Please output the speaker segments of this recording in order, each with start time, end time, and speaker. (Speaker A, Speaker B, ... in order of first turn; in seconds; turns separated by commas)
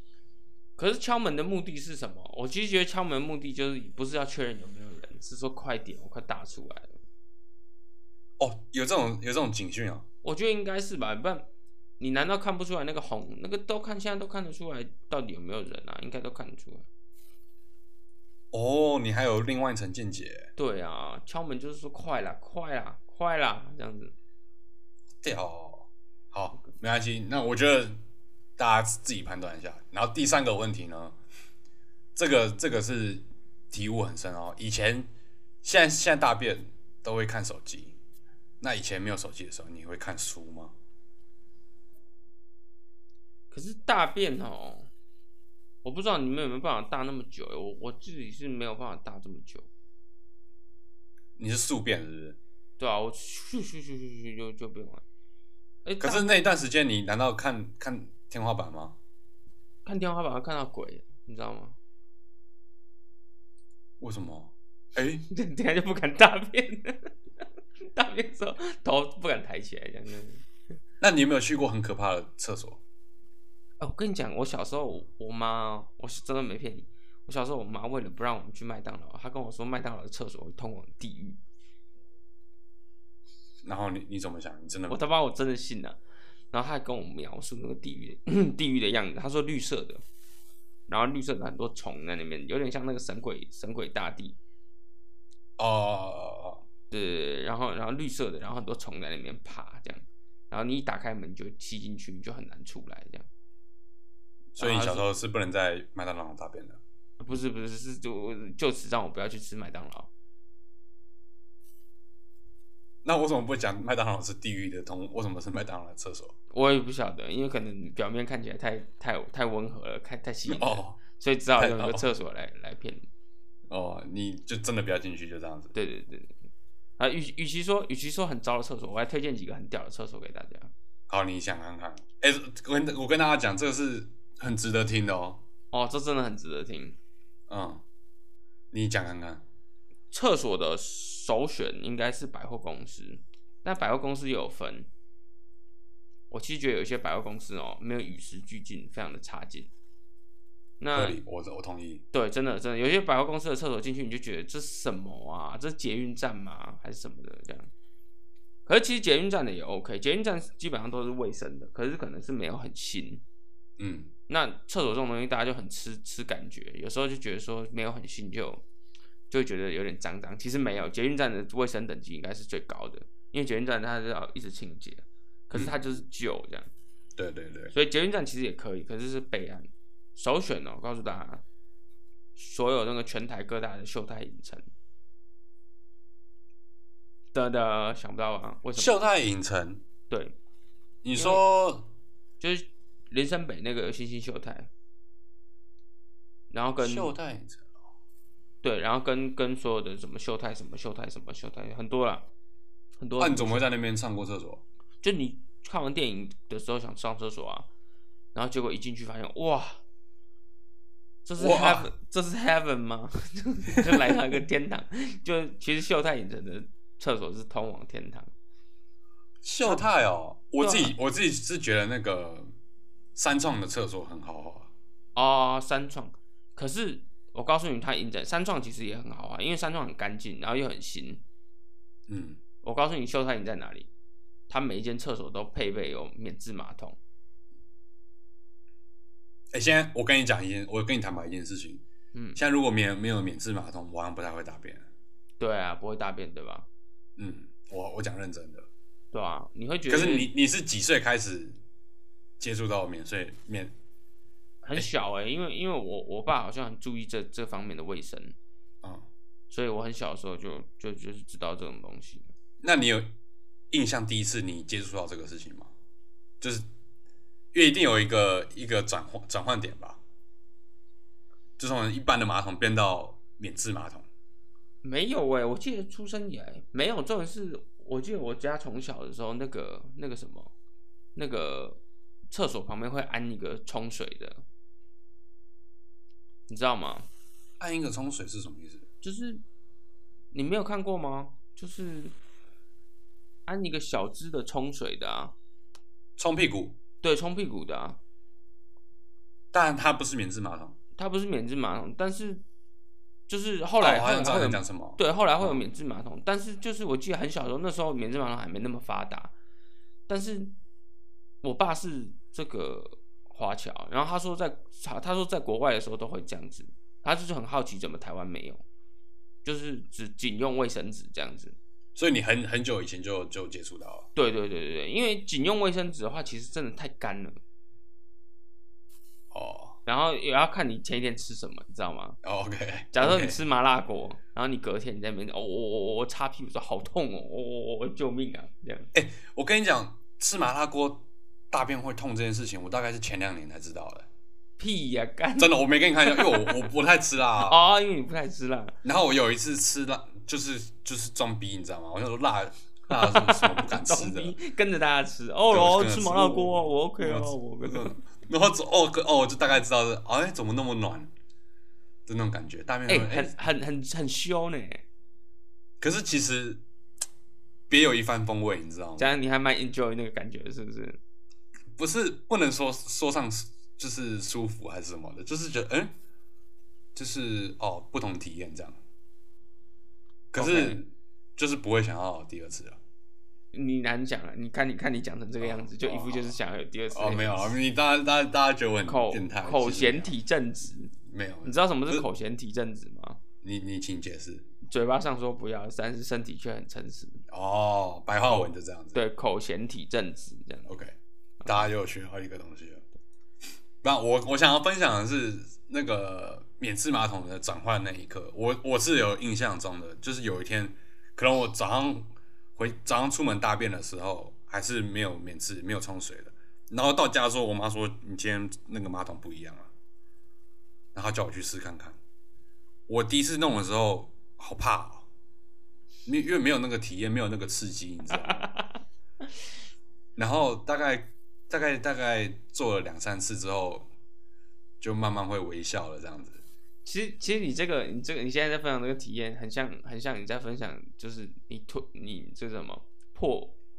Speaker A: 0.8-6.9, Speaker B: 8.4-10.0, Speaker A: 10.2-11.5, Speaker A: 12.0-16.9, Speaker B: 18.5-20.5, Speaker A: 20.6-24.1, Speaker B: 25.2-28.0, Speaker B: 28.6-31.2, Speaker B: 32.1-35.1, Speaker B: 35.6-38.0, Speaker B: 38.6-40.7, Speaker A: 43.5-44.9, Speaker A: 45.8-49.7, Speaker B: 51.4-52.4, Speaker A: 52.8-55.0, Speaker A: 55.9-56.3, Speaker B: 56.0-59.0, Speaker A: 59.9-61.8, Speaker B: 64.0-65.2, Speaker A: 65.3-67.1, Speaker A: 67.9-70.4, Speaker B: 71.0-72.8, Speaker A: 73.8-81.4, Speaker B: 83.6-85.0, Speaker A: 84.9-86.0, Speaker A: 86.5-90.0, Speaker A: 90.9-94.4, Speaker B: 95.6-96.6, Speaker A: 96.9-103.3, Speaker B: 104.5-106.8, Speaker A: 104.6-105.1, Speaker A: 107.2-110.1, Speaker B: 113.0-116.3, Speaker A: 116.5-123.0, Speaker B: 120.5-121.0, Speaker B: 121.6-122.0, Speaker B: 123.7-125.7, Speaker A: 125.7-126.3, Speaker A: 127.0-130.7, Speaker B: 131.1-135.4, Speaker A: 135.7-137.0, Speaker B: 137.5-137.8, Speaker B: 138.7-139.4, Speaker A: 140.1-144.9, Speaker A: 146.3-149.7, Speaker A: 150.8-151.2, Speaker B: 150.9-152.0, Speaker A: 152.1-157.7, Speaker A: 158.7-163.2, Speaker B: 163.8-164.1, Speaker A: 164.3-168.6, Speaker A: 169.3-176.7, Speaker B: 175.5-175.8, Speaker B: 177.2-177.7, Speaker A: 177.7-181.4, Speaker A: 182.4-184.7, Speaker A: 187.3-188.9, Speaker B: 188.8-189.8, Speaker A: 190.1-190.3, Speaker B: 191.0-191.9, Speaker A: 191.2-191.4, Speaker A: 192.4-194.7, Speaker A: 196.5-197.1, Speaker B: 196.8-197.6, Speaker A: 198.6-202.3, Speaker A: 203.0-203.7, Speaker B: 203.2-204.6, Speaker A: 205.0-207.7, Speaker A: 208.3-209.8, Speaker A: 211.2-218.3, Speaker B: 211.4-211.9, Speaker B: 219.4-222.5, Speaker A: 220.6-221.0, Speaker B: 223.2-224.7, Speaker A: 225.2-231.2, Speaker B: 232.1-232.4, Speaker A: 232.6-233.9, Speaker A: 234.5-237.0, Speaker B: 239.5-241.8, Speaker A: 242.1-242.4, Speaker B: 242.4-244.9, Speaker A: 245.4-246.7, Speaker B: 247.2-248.7, Speaker A: 249.1-250.3, Speaker B: 249.9-251.6, Speaker B: 252.4-253.7, Speaker A: 254.6-258.4, Speaker A: 259.5-262.3, Speaker B: 262.6-263.1, Speaker B: 263.7-265.7, Speaker B: 266.4-266.7, Speaker B: 267.5-270.0, Speaker B: 271.6-274.1, Speaker A: 274.8-280.5, Speaker A: 281.1-284.4, Speaker A: 286.5-287.1, Speaker B: 287.6-288.9, Speaker A: 289.0-289.4, Speaker A: 290.3-292.1, Speaker A: 293.5-295.4, Speaker B: 296.2-296.8, Speaker A: 297.0-298.0, Speaker B: 299.5-300.8, Speaker A: 301.0-302.4, Speaker A: 303.3-309.3, Speaker B: 303.8-305.6, Speaker A: 310.1-310.5, Speaker A: 311.4-318.6, Speaker A: 319.4-321.6, Speaker B: 321.9-324.1, Speaker A: 324.1-327.4, Speaker B: 329.3-329.8, Speaker A: 329.9-332.2, Speaker B: 332.2-333.4, Speaker A: 332.9-338.9, Speaker B: 338.9-344.1, Speaker A: 344.6-346.7, Speaker B: 345.4-347.6, Speaker A: 347.4-348.8, Speaker B: 348.8-354.4, Speaker A: 352.9-358.0, Speaker B: 355.5-361.1, Speaker B: 362.1-363.3, Speaker A: 362.9-364.8, Speaker B: 365.8-366.6, Speaker B: 367.7-369.1, Speaker A: 369.0-371.0, Speaker B: 371.8-375.9, Speaker B: 376.9-378.8, Speaker B: 380.3-382.8, Speaker A: 380.4-380.8, Speaker A: 383.5-387.6, Speaker B: 385.4-386.4, Speaker B: 386.9-390.1, Speaker A: 388.9-393.2, Speaker B: 391.1-392.1, Speaker B: 393.4-394.5, Speaker A: 394.7-397.2, Speaker B: 397.3-399.0, Speaker A: 398.2-400.7, Speaker B: 400.7-400.9, Speaker B: 401.4-402.8, Speaker B: 403.8-419.7, Speaker B: 420.9-422.0, Speaker B: 422.9-425.1, Speaker B: 426.1-428.5, Speaker A: 428.3-428.8, Speaker B: 430.2-433.9, Speaker B: 434.8-436.4, Speaker A: 436.9-443.6